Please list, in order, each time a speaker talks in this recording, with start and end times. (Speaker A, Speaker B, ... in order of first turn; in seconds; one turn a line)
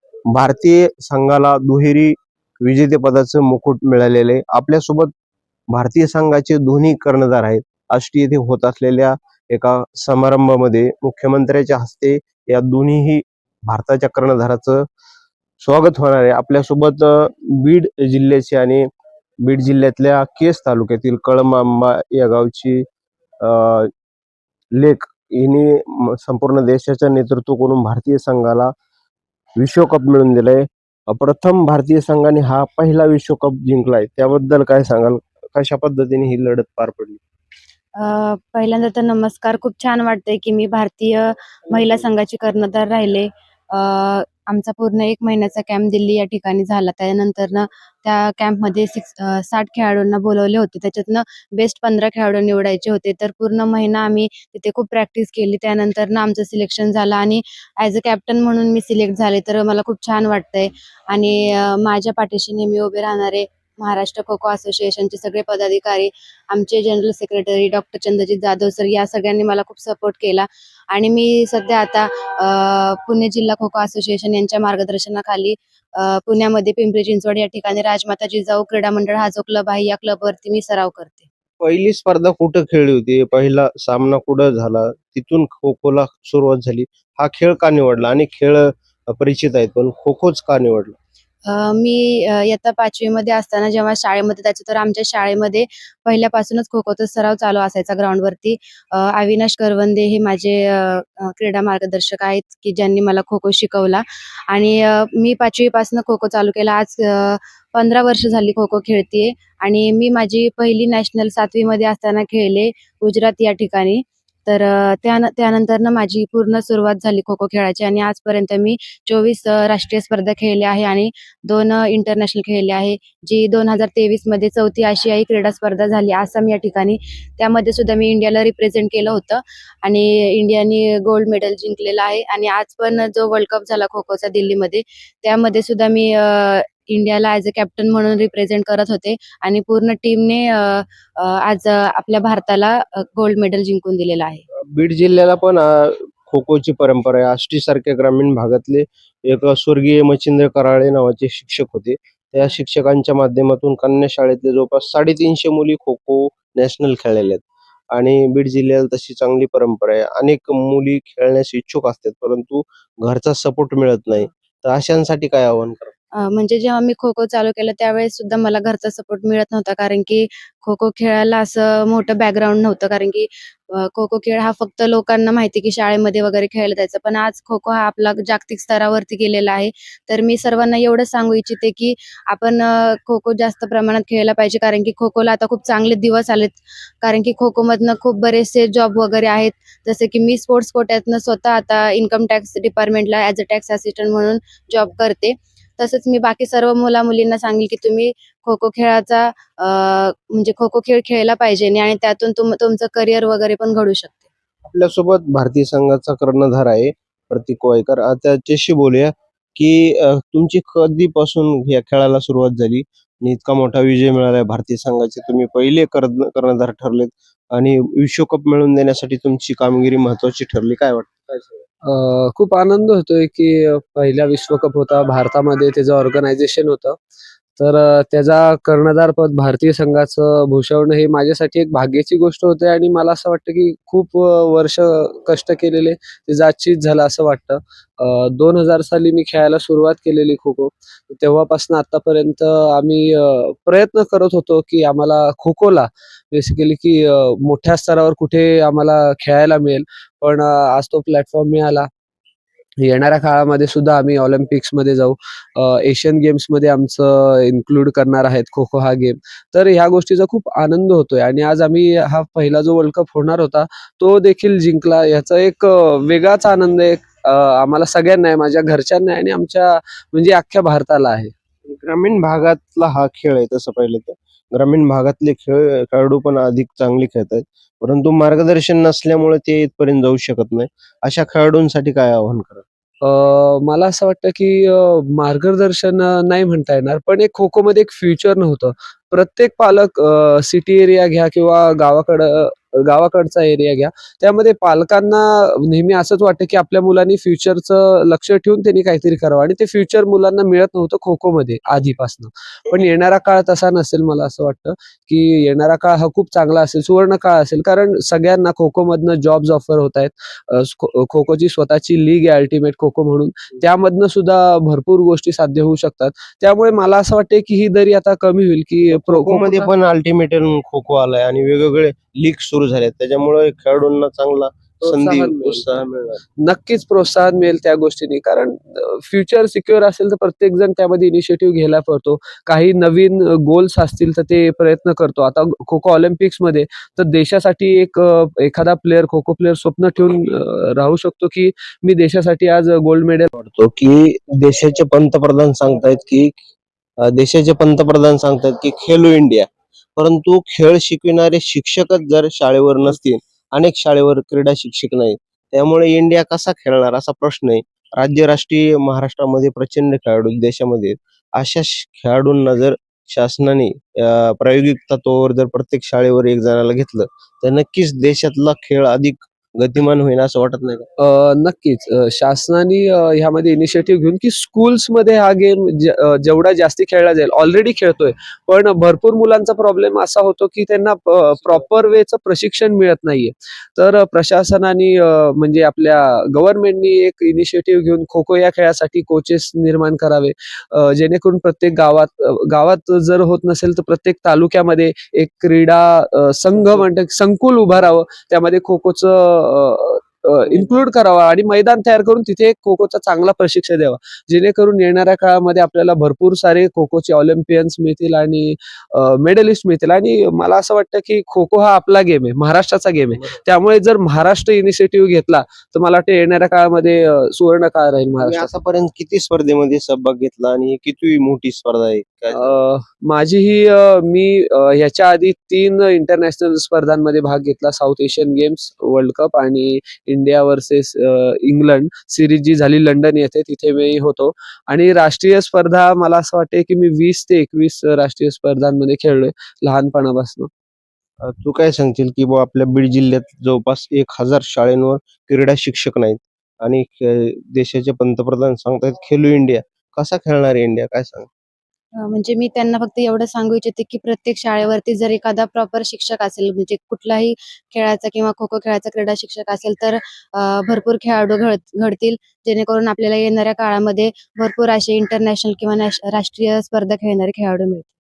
Speaker A: 0.3-5.1
Speaker A: 5.7-14.8
Speaker A: 15.6-18.9
Speaker A: 19.4-22.8
Speaker A: 23.4-23.9
Speaker A: 24.8-28.7
Speaker A: 29.6-37.2
Speaker B: 38.0-81.3
Speaker A: 81.6-91.0
Speaker B: 91.5-144.4
Speaker A: 144.6-165.9
Speaker B: 166.2-204.2
Speaker A: 204.7-221.6
Speaker C: 221.9-227.0
Speaker C: 227.6-251.9
Speaker C: 252.8-271.3
Speaker A: 271.7-282.6
Speaker C: 283.0-319.7
Speaker A: 318.9-326.2
Speaker C: 324.8-325.8
Speaker C: 326.4-343.3
Speaker A: 343.3-346.4
Speaker A: 347.0-370.9
Speaker C: 371.0-418.5
Speaker A: 418.2-422.6
Speaker C: 422.3-440.5
Speaker A: 441.2-451.3
Speaker B: 452.0-467.9